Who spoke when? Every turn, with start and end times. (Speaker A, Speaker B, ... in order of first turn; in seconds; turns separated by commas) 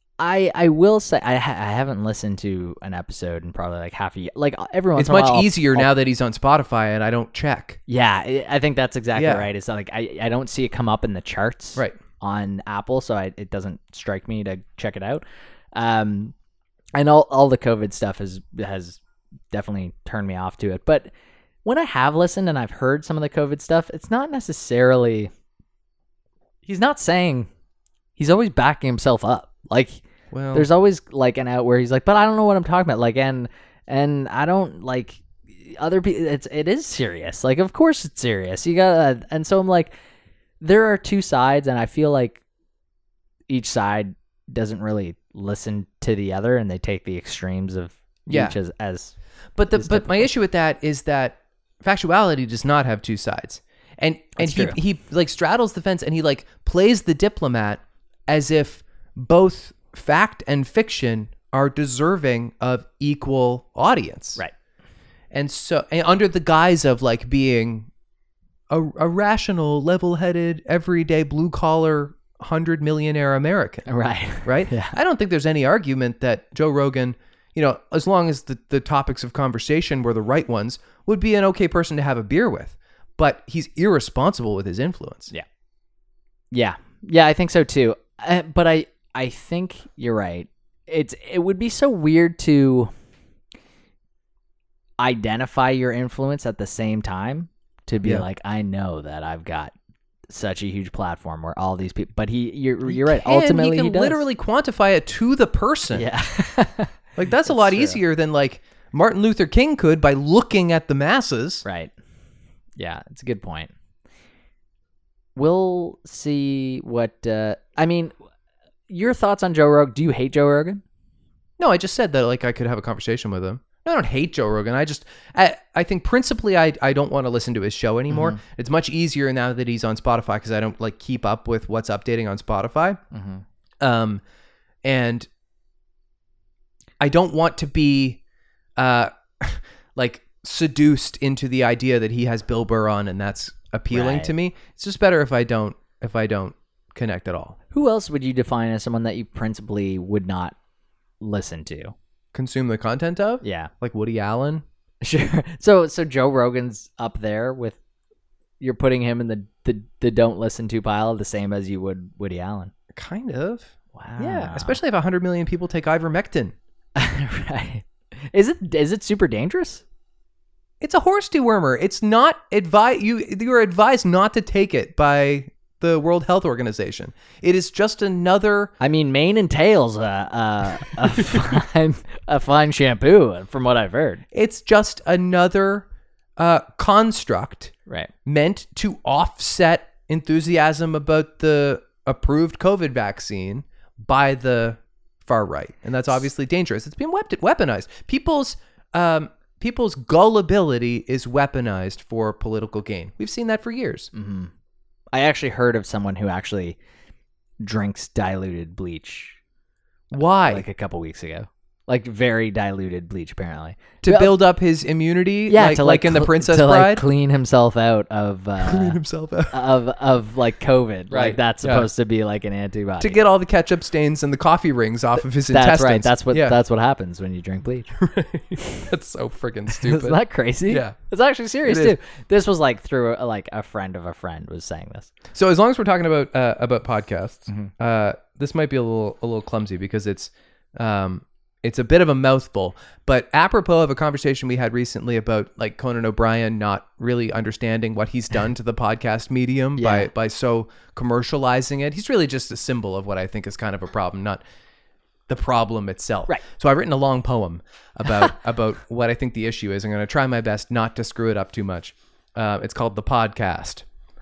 Speaker A: 0.2-5.9, Speaker B: 5.0-7.8, Speaker A: 7.9-16.3, Speaker B: 9.1-9.5, Speaker A: 16.9-19.0, Speaker A: 19.5-21.1, Speaker A: 21.6-25.3, Speaker A: 26.6-27.5, Speaker A: 28.2-30.0, Speaker B: 30.3-30.7, Speaker A: 30.5-39.9, Speaker A: 40.6-42.4, Speaker A: 43.5-49.1, Speaker B: 48.3-48.5, Speaker B: 49.5-64.4, Speaker A: 49.7-50.3, Speaker A: 54.4-54.8, Speaker B: 65.3-67.9, Speaker B: 68.7-73.9, Speaker A: 73.8-75.0, Speaker B: 74.4-85.3, Speaker A: 86.5-92.9, Speaker A: 95.0-99.7, Speaker A: 100.3-104.2, Speaker B: 102.8-106.1, Speaker A: 105.9-106.9, Speaker B: 107.2-111.6, Speaker A: 107.5-108.0, Speaker A: 111.6-111.9, Speaker A: 112.8-113.7, Speaker A: 115.3-118.1, Speaker A: 118.9-120.8, Speaker B: 121.6-133.0, Speaker A: 128.1-128.4, Speaker A: 133.1-133.4, Speaker B: 133.8-134.2, Speaker B: 134.8-135.3, Speaker B: 137.0-138.2, Speaker B: 138.8-147.6, Speaker A: 143.9-144.3, Speaker A: 147.7-150.5, Speaker A: 151.2-151.9, Speaker B: 152.3-154.6, Speaker A: 153.4-153.7, Speaker A: 155.0-157.8, Speaker A: 158.6-162.7, Speaker B: 162.9-166.5, Speaker A: 163.9-164.8, Speaker A: 166.9-169.8, Speaker B: 170.8-178.7, Speaker A: 178.8-184.2, Speaker B: 184.3-185.8, Speaker B: 186.4-187.7, Speaker B: 188.2-204.1, Speaker A: 204.1-204.5, Speaker A: 205.1-206.8, Speaker A: 207.6-209.4, Speaker B: 210.1-210.6, Speaker A: 210.4-214.3, Speaker B: 214.0-217.0, Speaker A: 215.5-219.0, Speaker B: 218.6-219.6, Speaker A: 219.5-223.2, Speaker B: 221.1-221.9, Speaker B: 223.0-226.6, Speaker A: 225.5-227.9, Speaker B: 227.9-230.9, Speaker A: 229.7-235.1, Speaker B: 231.6-231.9, Speaker B: 235.3-254.4, Speaker A: 249.8-250.1, Speaker B: 255.3-263.8